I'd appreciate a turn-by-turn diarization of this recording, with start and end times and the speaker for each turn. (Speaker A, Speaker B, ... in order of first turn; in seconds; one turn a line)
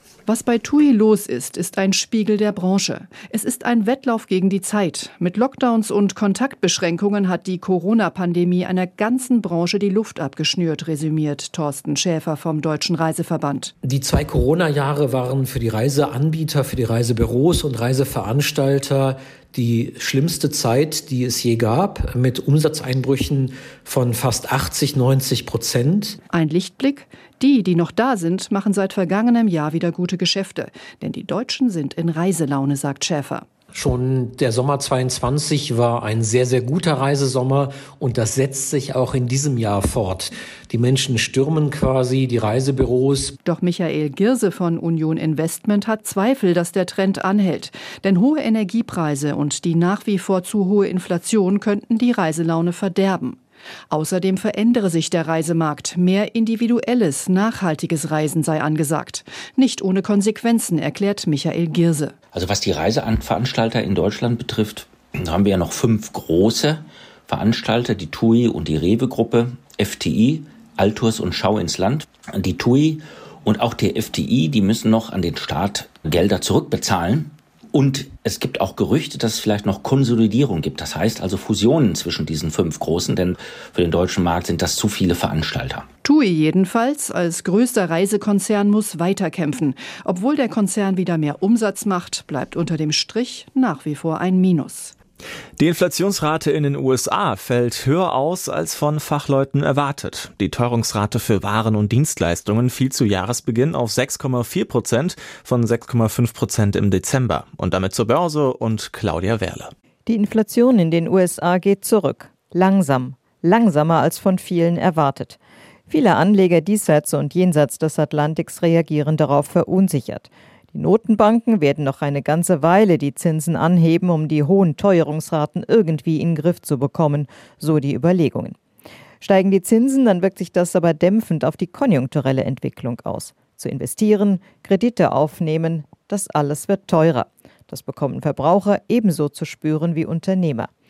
Speaker A: 0.3-13.7
Speaker B: 13.8-26.2
Speaker A: 26.3-33.5
Speaker B: 33.8-43.3
Speaker A: 43.4-53.4
Speaker A: 53.9-62.1
Speaker C: 62.3-85.9
Speaker A: 86.0-94.9
Speaker D: 95.6-109.7
Speaker E: 110.1-115.4
Speaker E: 115.9-128.6
Speaker E: 129.2-140.7